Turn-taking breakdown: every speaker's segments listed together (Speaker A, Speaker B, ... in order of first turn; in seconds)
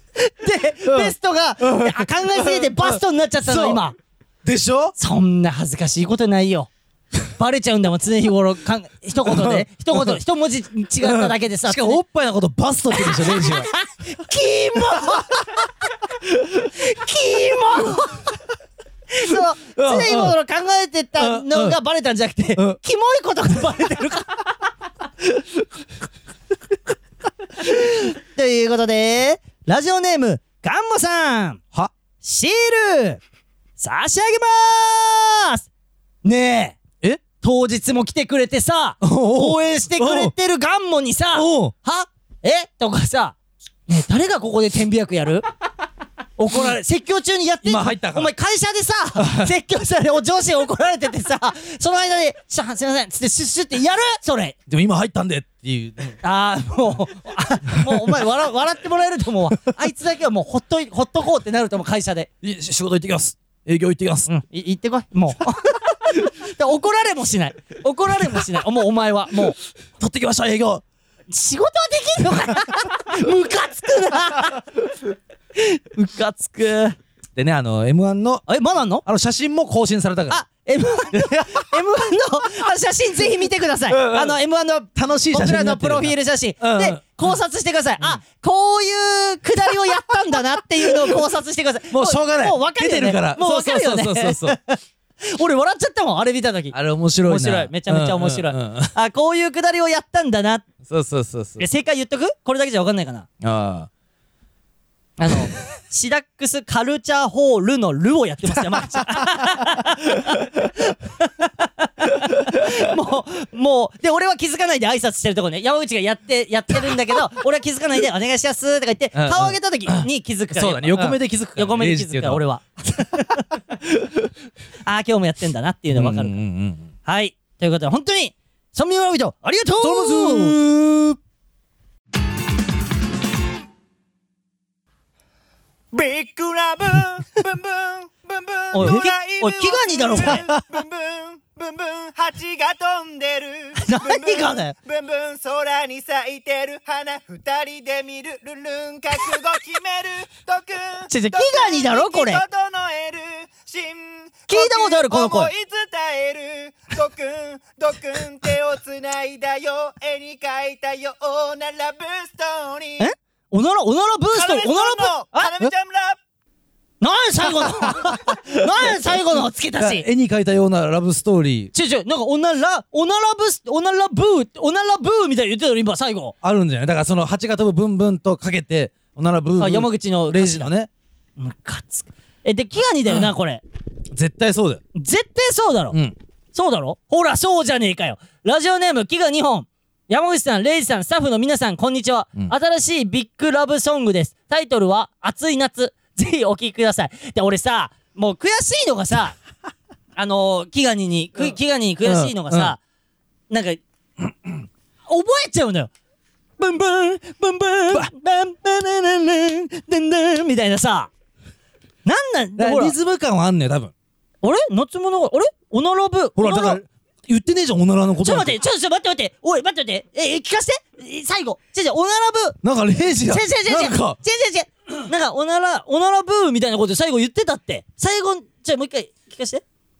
Speaker A: 0.2-4.0, 5.0-6.7, 7.4-12.0, 12.9-15.4, 16.8-18.3, 19.1-24.4, 27.7-31.6, 32.2-33.2, 33.8-35.7, 36.2-36.8, 37.4-43.4, 43.9-45.5, 46.4-54.6, 56.2-62.3, 64.3-69.6, 71.3-74.7, 75.5-77.0, 78.5-79.0, 80.3-100.7, 101.6-103.3, 105.2-123.5, 124.8-126.4, 127.0-130.6, 138.7-140.4, 143.8-144.7, 151.1-152.4, 154.5-155.5, 163.0-165.6, 167.0-170.1, 171.7-176.3, 179.6-180.7, 181.4-183.6, 184.9-186.0, 186.5-199.4, 200.2-202.8, 203.5-203.8, 205.1-205.9, 206.6-211.1, 212.1-212.9, 214.4-216.8, 218.2-222.6, 223.3-229.6
Speaker B: 0.8-3.8, 4.4-5.0, 9.2-10.2, 11.0-13.7, 14.9-15.2, 19.2-20.4, 21.2-21.8, 39.0-40.3, 41.3-41.7, 46.5-46.8, 47.6-48.3, 49.2-49.5, 54.7-56.2, 57.8-58.1, 62.4-64.3, 70.0-70.8, 77.4-78.5, 79.0-80.4, 81.1-81.8, 83.9-84.4, 85.0-87.3, 90.8-91.2, 91.9-94.6, 96.7-98.9, 100.8-101.7, 103.4-103.9, 108.7-109.7, 119.1-122.4, 125.9-126.9, 129.8-131.2, 140.2-140.7, 167.7-168.4, 169.8-171.7, 176.4-180.9, 184.1-184.8, 185.9-186.2, 201.4-202.8, 212.6-213.9, 216.4-218.6, 222.6-224.2
Speaker C: 135.9-163.1, 164.3-166.2